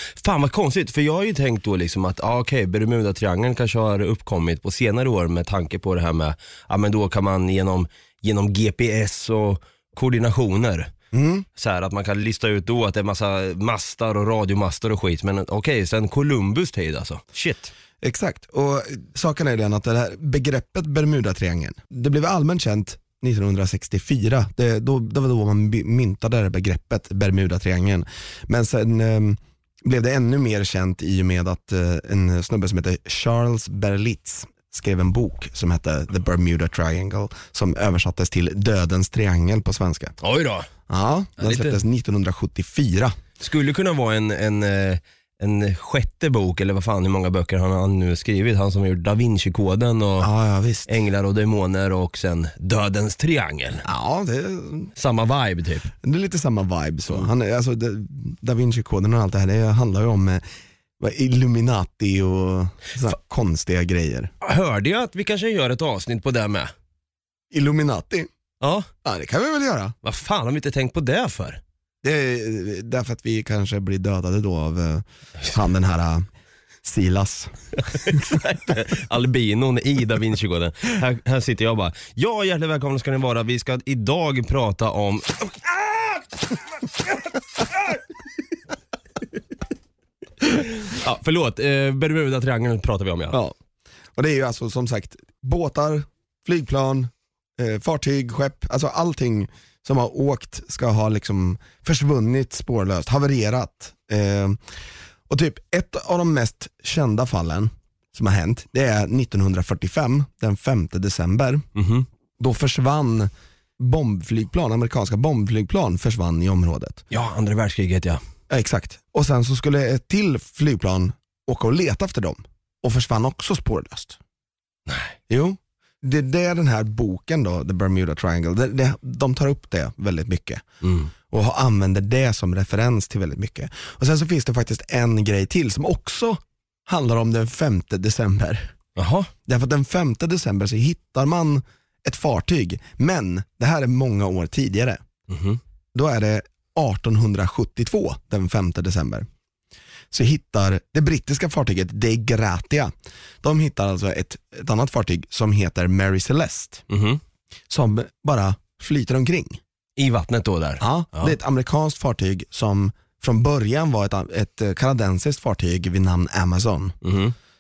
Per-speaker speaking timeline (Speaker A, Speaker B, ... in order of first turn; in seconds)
Speaker A: 0.2-10.9, 11.6-17.7, 40.2-40.7, 41.4-41.8, 43.4-50.3, 50.9-53.9, 55.0-55.9, 64.4-66.7, 68.6-68.9, 70.0-71.6, 77.8-86.3, 87.6-88.0, 90.4-93.4, 111.8-112.1, 117.1-118.2, 124.9-125.2, 130.8-131.1, 139.0-139.3, 145.3-145.6, 156.9-157.2, 160.0-161.4, 167.0-167.3
Speaker B: 11.1-11.5, 18.0-40.1, 40.9-43.2, 50.2-50.9, 53.8-54.9, 56.0-60.5, 61.0-64.3, 67.5-68.3, 69.0-70.0, 72.0-76.3, 76.8-77.5, 94.2-104.7, 105.3-111.7, 112.4-117.0, 118.5-124.2, 125.3-130.6, 131.3-138.7, 139.5-145.0, 145.9-149.3, 150.1-156.8, 157.7-159.6, 160.8-166.9